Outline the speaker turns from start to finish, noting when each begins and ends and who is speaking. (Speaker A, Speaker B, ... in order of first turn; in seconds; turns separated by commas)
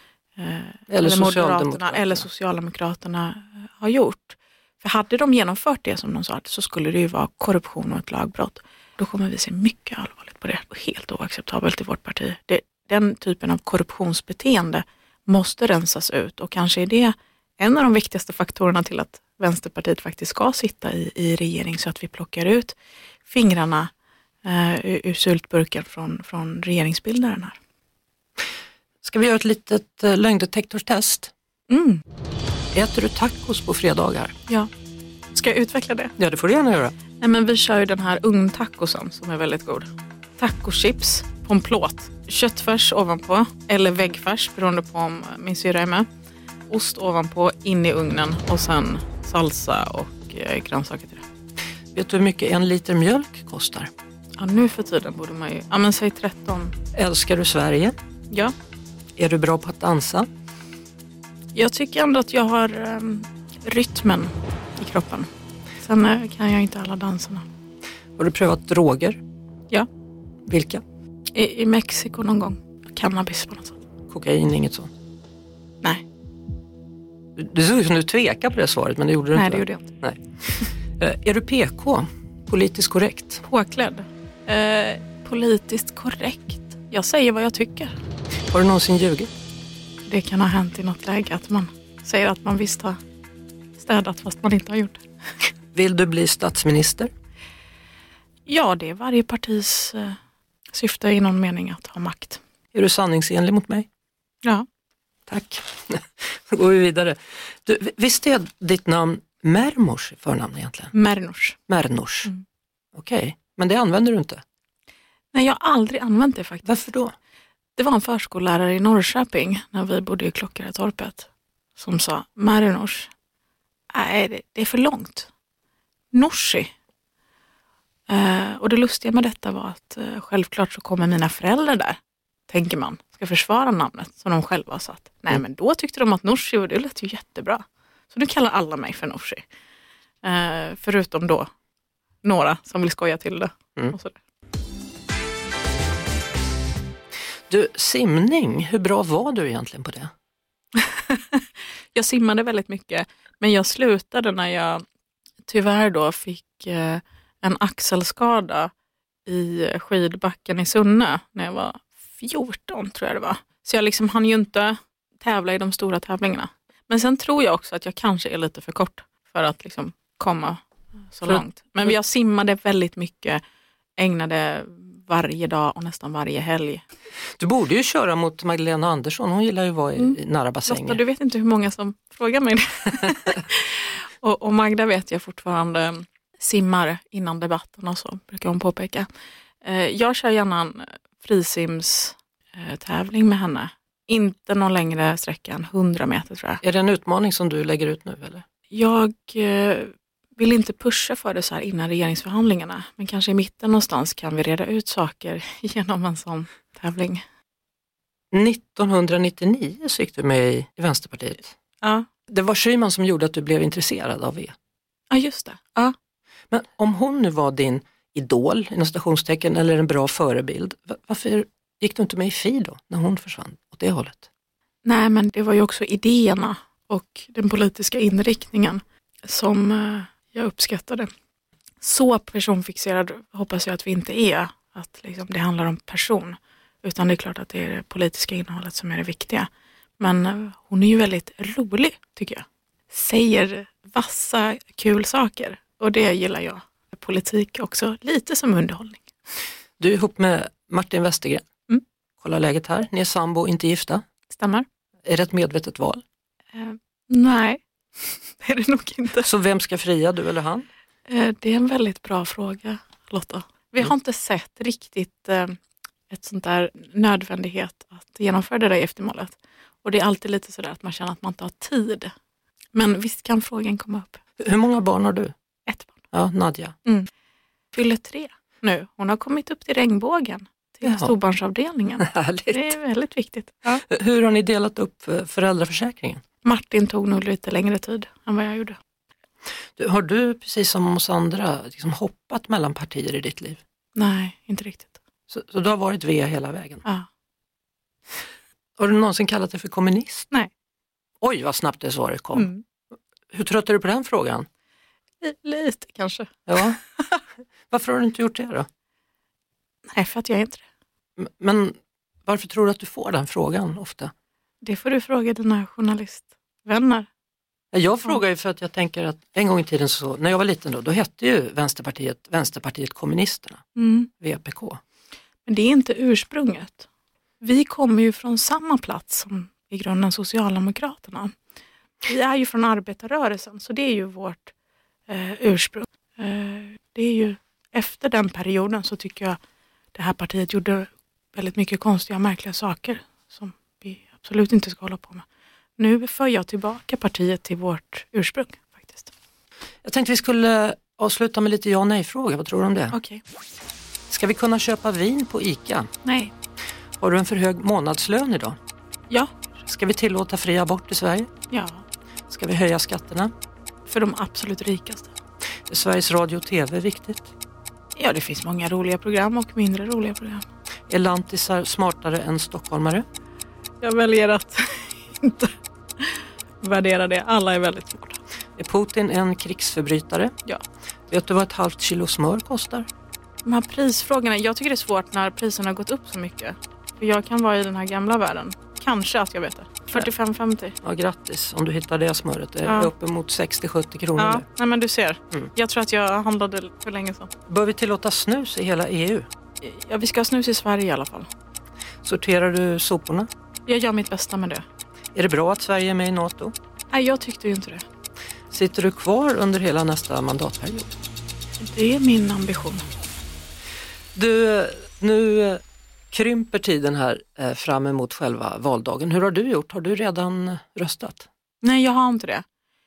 Speaker A: 0.4-23.9, Speaker B: 0.9-2.2, Speaker A: 24.4-27.6, Speaker B: 29.0-31.3, Speaker A: 31.7-32.0, Speaker B: 32.7-34.3, Speaker A: 35.3-36.1, Speaker B: 36.2-36.9, Speaker A: 37.2-46.1, Speaker A: 46.7-51.2, Speaker B: 51.9-53.9, Speaker A: 54.4-56.8, Speaker B: 57.0-58.0, Speaker B: 59.2-60.3, Speaker A: 61.5-65.3, Speaker A: 65.8-67.5, Speaker B: 68.2-69.2, Speaker B: 70.5-70.8, Speaker A: 71.3-73.8, Speaker B: 74.1-74.9, Speaker B: 77.4-80.2, Speaker A: 79.3-79.9, Speaker B: 81.0-83.4, Speaker A: 83.4-88.0, Speaker B: 88.5-89.3, Speaker A: 90.1-93.0, Speaker A: 93.8-95.0, Speaker B: 95.7-97.1, Speaker A: 98.5-100.2, Speaker A: 100.7-102.4, Speaker B: 102.7-103.9, Speaker B: 105.3-110.9, Speaker A: 110.9-111.6, Speaker B: 111.7-112.3, Speaker B: 112.9-114.4, Speaker A: 115.3-116.9, Speaker B: 116.7-117.1, Speaker A: 117.8-123.1, Speaker A: 123.9-125.3, Speaker A: 126.1-126.7, Speaker A: 128.1-139.4, Speaker A: 140.2-141.5, Speaker A: 142.2-144.2, Speaker B: 147.5-150.1, Speaker A: 150.9-154.8, Speaker A: 155.4-158.7, Speaker A: 159.3-173.4, Speaker A: 174.0-176.8, Speaker B: 177.4-181.0, Speaker A: 180.0-189.1, Speaker A: 189.6-196.6, Speaker B: 196.6-198.4, Speaker A: 198.7-207.2, Speaker B: 208.3-211.5, Speaker A: 211.8-212.1, Speaker B: 212.3-214.6, Speaker A: 215.1-215.9, Speaker B: 216.5-224.3, Speaker A: 224.8-231.1, Speaker A: 231.8-249.0, Speaker B: 249.8-251.4, Speaker B: 252.2-254.0, Speaker A: 254.3-254.7, Speaker B: 255.1-256.0, Speaker A: 256.5-259.3, Speaker B: 259.2-260.7, Speaker A: 261.1-265.6, Speaker A: 266.1-272.1, Speaker A: 272.8-274.2, Speaker B: 274.4-275.3, Speaker A: 275.7-276.0, Speaker B: 276.1-276.7, Speaker A: 277.7-283.8, Speaker B: 280.8-281.1, Speaker B: 282.0-282.7, Speaker B: 283.8-286.2, Speaker A: 286.4-288.8, Speaker B: 289.8-293.6, Speaker A: 293.9-295.0, Speaker B: 295.3-296.8, Speaker B: 298.8-300.3, Speaker B: 301.2-302.5, Speaker A: 302.3-302.6, Speaker B: 303.3-304.5, Speaker A: 305.2-307.2, Speaker B: 306.5-306.8, Speaker B: 307.7-308.7, Speaker A: 309.9-310.6, Speaker B: 311.2-314.1, Speaker A: 314.6-317.1, Speaker B: 317.7-323.6, Speaker A: 323.8-324.1, Speaker B: 324.2-324.8, Speaker A: 325.5-326.9, Speaker A: 327.4-331.4, Speaker A: 332.0-334.5, Speaker A: 335.1-339.4, Speaker A: 339.9-345.2, Speaker A: 345.8-349.1, Speaker B: 349.8-352.9, Speaker A: 352.9-353.2, Speaker B: 354.1-355.9, Speaker A: 356.0-356.3, Speaker B: 357.0-358.6, Speaker B: 359.7-361.3, Speaker A: 361.5-361.8, Speaker B: 362.3-363.3, Speaker A: 363.9-365.1, Speaker B: 365.7-367.3, Speaker A: 368.0-370.4, Speaker B: 370.9-373.1, Speaker A: 373.8-378.2, Speaker B: 378.6-380.3, Speaker B: 381.1-382.9, Speaker A: 383.4-390.8, Speaker B: 390.8-394.4, Speaker A: 392.6-392.9, Speaker A: 394.2-397.3, Speaker B: 397.5-399.3, Speaker A: 399.6-401.3, Speaker B: 402.0-403.3, Speaker A: 403.7-404.6, Speaker B: 405.1-406.6, Speaker A: 406.9-407.9, Speaker B: 408.5-410.9, Speaker A: 411.6-412.9, Speaker B: 414.1-421.3, Speaker A: 421.6-422.4